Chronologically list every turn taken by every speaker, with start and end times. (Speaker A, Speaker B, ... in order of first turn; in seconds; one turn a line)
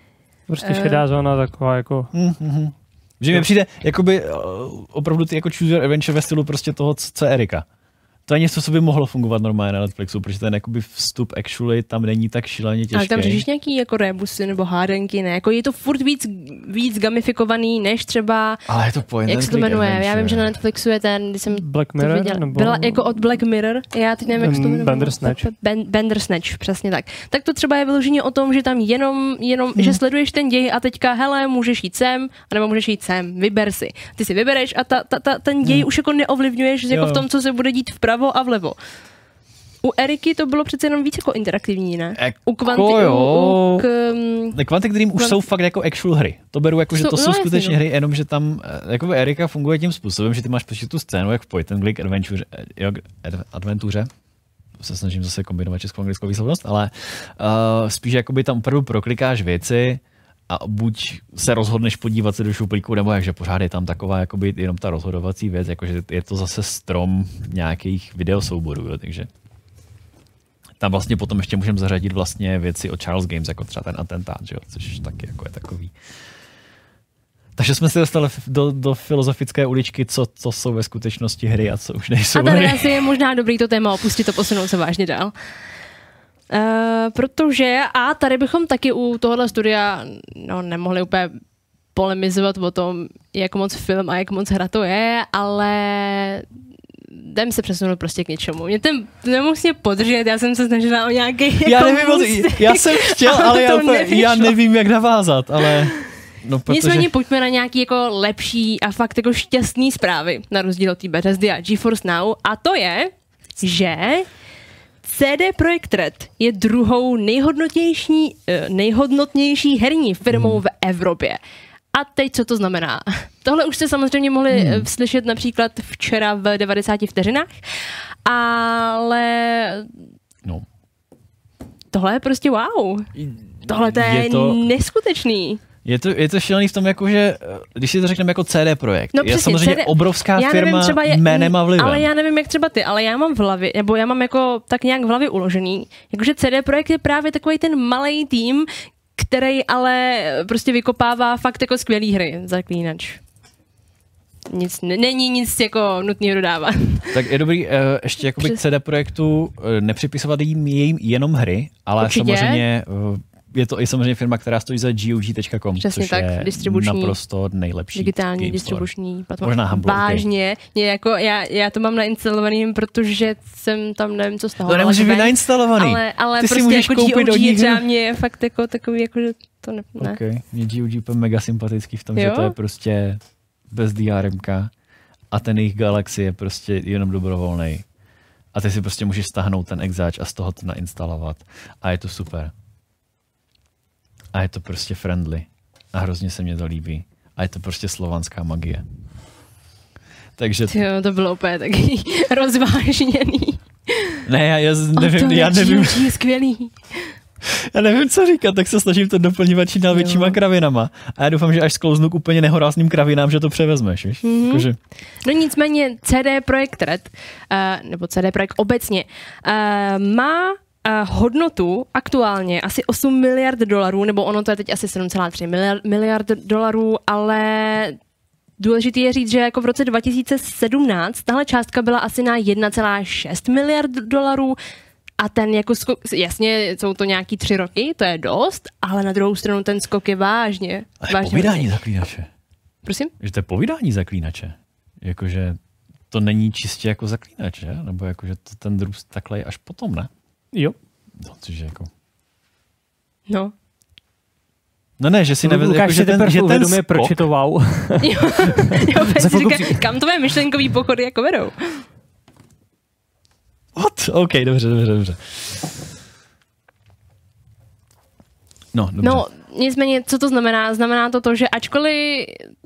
Speaker A: 0.5-2.1
Speaker B: 0.6-1.1
Speaker C: 2.1-7.7
Speaker C: 8.3-13.4
Speaker B: 12.9-18.6
Speaker C: 18.7-20.5
Speaker B: 19.3-38.8
Speaker A: 21.5-23.2
Speaker A: 24.3-25.5
Speaker C: 36.9-37.2
Speaker B: 39.8-44.6
Speaker C: 42.2-43.9
Speaker C: 44.5-54.1
Speaker B: 46.9-47.8
Speaker C: 54.8-69.3
Speaker C: 70.8-75.9
Speaker C: 77.6-83.0
Speaker B: 82.3-85.3
Speaker B: 86.5-91.3
Speaker B: 91.9-96.4
Speaker B: 97.1-104.5
Speaker C: 101.6-107.1
Speaker B: 106.7-114.2
Speaker B: 115.0-121.4
Speaker C: 120.3-120.6
Speaker B: 121.9-127.5
Speaker C: 124.5-124.9
Speaker B: 128.2-129.9
Speaker B: 131.9-133.1
Speaker C: 133.2-134.7
Speaker B: 133.6-135.6
Speaker C: 135.8-142.1
Speaker B: 139.1-153.2
Speaker B: 154.5-157.1
Speaker C: 157.1-168.9
Speaker B: 162.0-162.6
Speaker B: 165.8-167.2
Speaker B: 167.9-180.2
Speaker C: 169.4-170.2
Speaker C: 174.7-177.8
Speaker C: 180.0-183.2
Speaker B: 182.1-182.5
Speaker C: 183.7-184.7
Speaker C: 185.3-187.8
Speaker C: 188.5-192.5
Speaker C: 194.3-198.8
Speaker C: 200.4-200.7
Speaker B: 200.7-204.1
Speaker C: 204.3-206.1
Speaker B: 204.9-207.0
Speaker C: 207.7-214.8
Speaker B: 209.9-210.4
Speaker B: 214.2-214.7
Speaker B: 215.2-227.9
Speaker B: 228.6-234.6
Speaker B: 235.2-241.7
Speaker C: 241.0-242.3
Speaker B: 242.8-243.1
Speaker C: 243.2-245.6
Speaker C: 246.1-250.1
Speaker C: 251.2-251.9
Speaker B: 253.3-253.5
Speaker C: 255.0-257.2
Speaker A: 255.4-258.1
Speaker B: 258.0-261.8
Speaker A: 258.7-259.9
Speaker C: 263.8-265.6
Speaker C: 268.7-269.2
Speaker B: 269.0-272.4